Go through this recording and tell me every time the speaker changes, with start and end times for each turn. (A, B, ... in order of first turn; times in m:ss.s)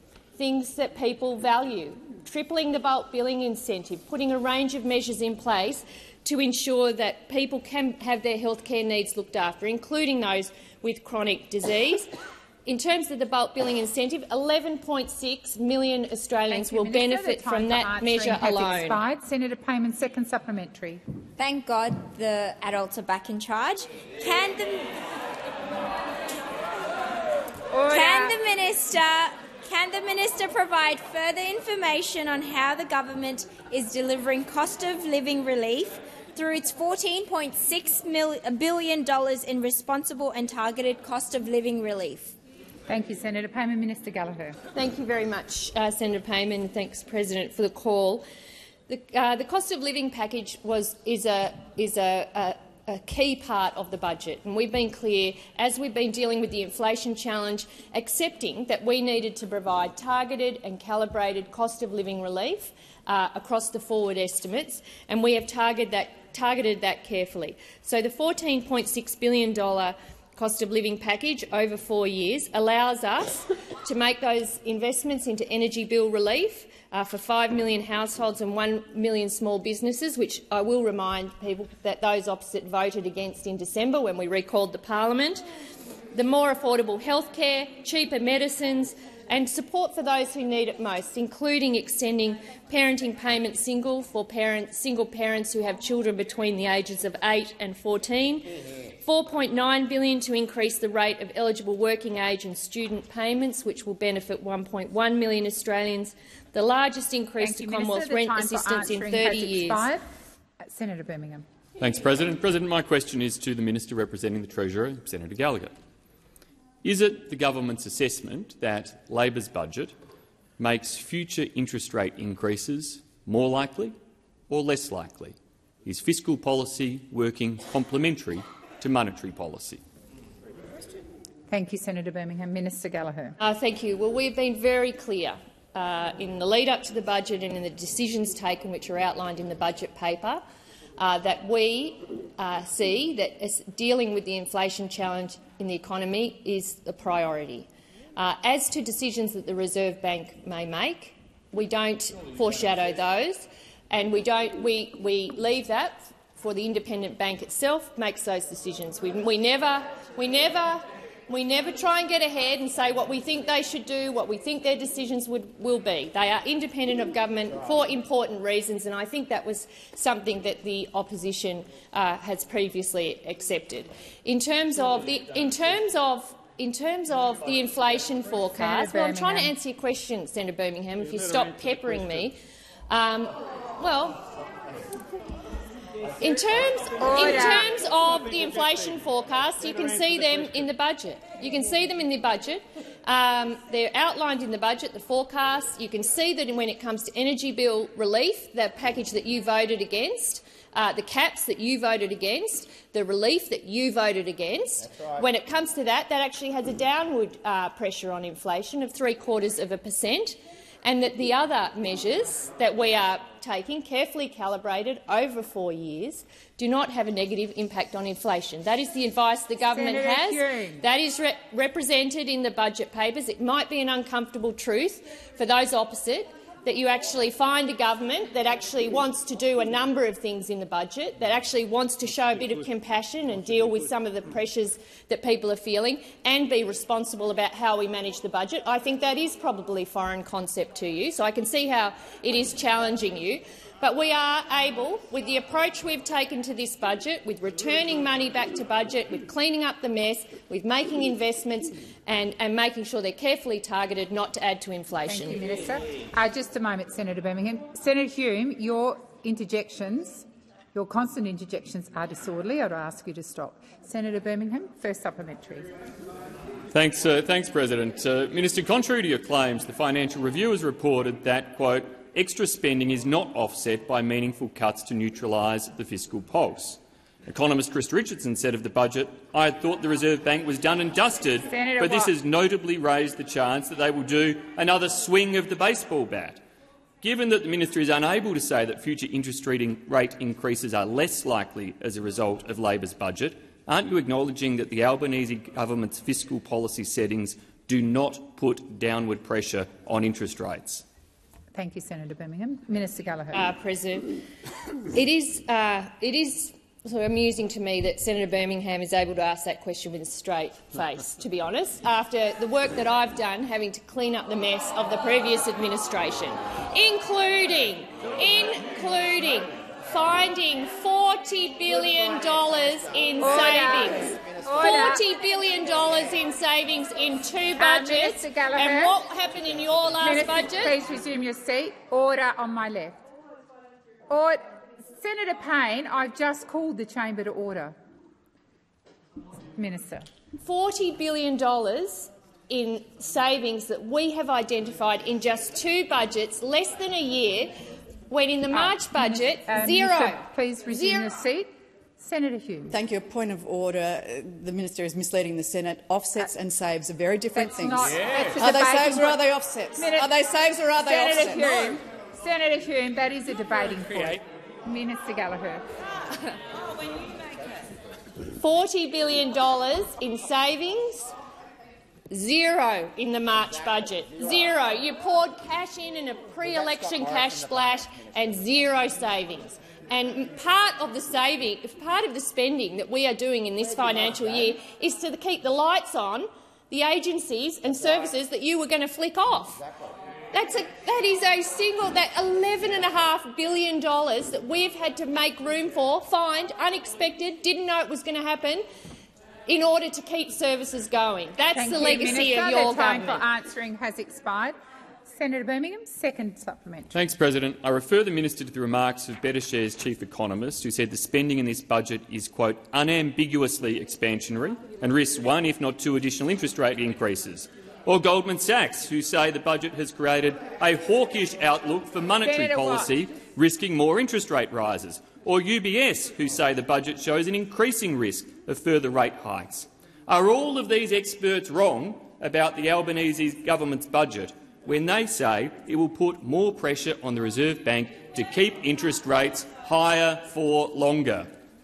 0:00.4-0:12.1 A
0:12.7-0:19.0 A
0:16.5-0:21.0 B
0:21.4-0:24.9 C
0:27.7-0:28.4 B
0:27.9-0:42.4 C
0:42.9-0:44.6 B
0:44.7-0:48.2 A
0:48.9-1:25.4 A
1:26.1-1:38.5 A
1:39.0-1:49.9 A
1:47.4-1:50.0 B
1:50.6-1:51.5 B
1:51.8-1:55.8 D
1:56.8-2:00.0 D
2:00.6-2:04.0 D
2:04.5-2:09.8 D
2:11.5-2:13.4 B
2:13.4-2:20.4 A
2:21.0-3:02.4 A
2:58.6-2:59.5 B
3:02.9-3:04.3 A
3:06.2-4:15.4 A
3:07.0-3:07.7 B
3:39.7-3:40.8 B
4:15.1-4:25.7 B
4:26.7-4:46.4 D
4:41.5-4:42.1 B
4:47.0-5:00.8 D
5:01.6-5:03.5 B
5:03.3-5:04.2 A
5:04.9-5:30.8 A
5:23.2-5:25.0 B
5:27.6-5:29.0 B
5:30.0-5:33.0 B
5:34.1-5:37.8 B
5:39.6-5:40.1 B
5:40.4-5:47.5 A
5:48.1-5:50.2 A
5:48.5-5:52.7 B
5:52.7-6:01.8 E
5:57.4-5:59.2 B
5:59.8-6:00.1 B
6:00.8-6:05.6 B
6:08.4-6:11.1 A
6:12.1-6:29.6 A
6:30.3-6:38.6 A
6:39.5-6:43.2 A
6:41.6-6:46.9 B
6:46.9-7:21.3 D
7:02.2-7:02.9 B